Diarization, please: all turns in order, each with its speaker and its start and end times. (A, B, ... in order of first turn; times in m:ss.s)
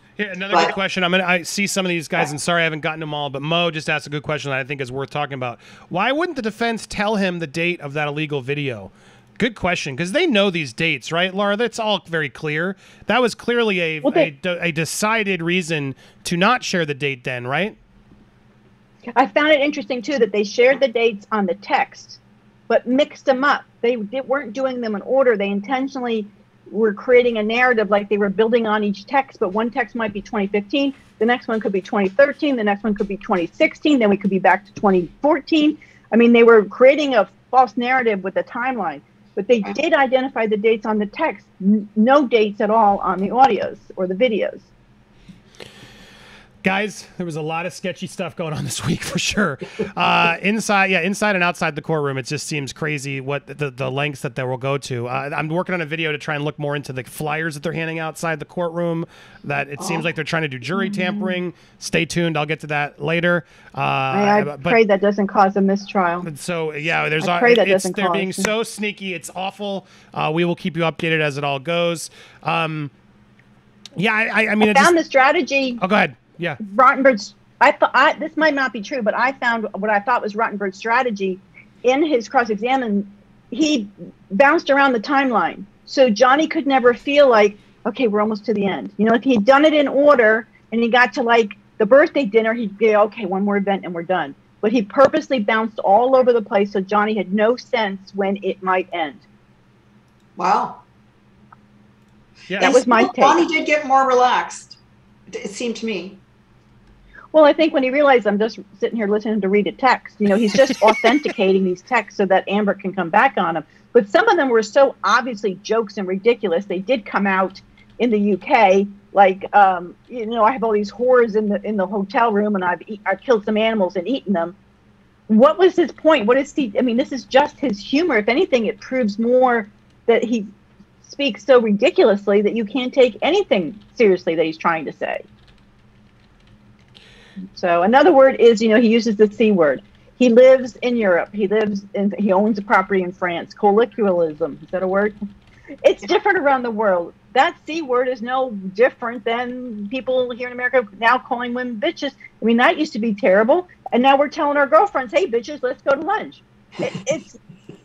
0:00.2-0:17.8 A
0:14.0-0:14.3 B
0:19.1-0:44.7 B
0:46.6-1:04.8 A
0:59.8-1:00.1 C
1:00.8-1:01.3 B
1:04.1-1:06.3 B
1:06.2-1:12.9 A
1:07.2-1:08.5 B
1:14.0-1:14.9 A
1:14.6-1:15.8 B
1:15.8-1:16.6 A
1:16.6-1:39.2 B
1:40.4-1:40.8 C
1:42.5-1:42.8 A
1:42.6-1:44.8 C
1:42.6-1:43.4 B
1:45.3-1:46.2 C
1:47.3-2:04.6 B
2:05.3-2:10.5 B
2:11.0-2:15.2 B
2:17.6-2:25.2 B
2:25.8-2:37.4 B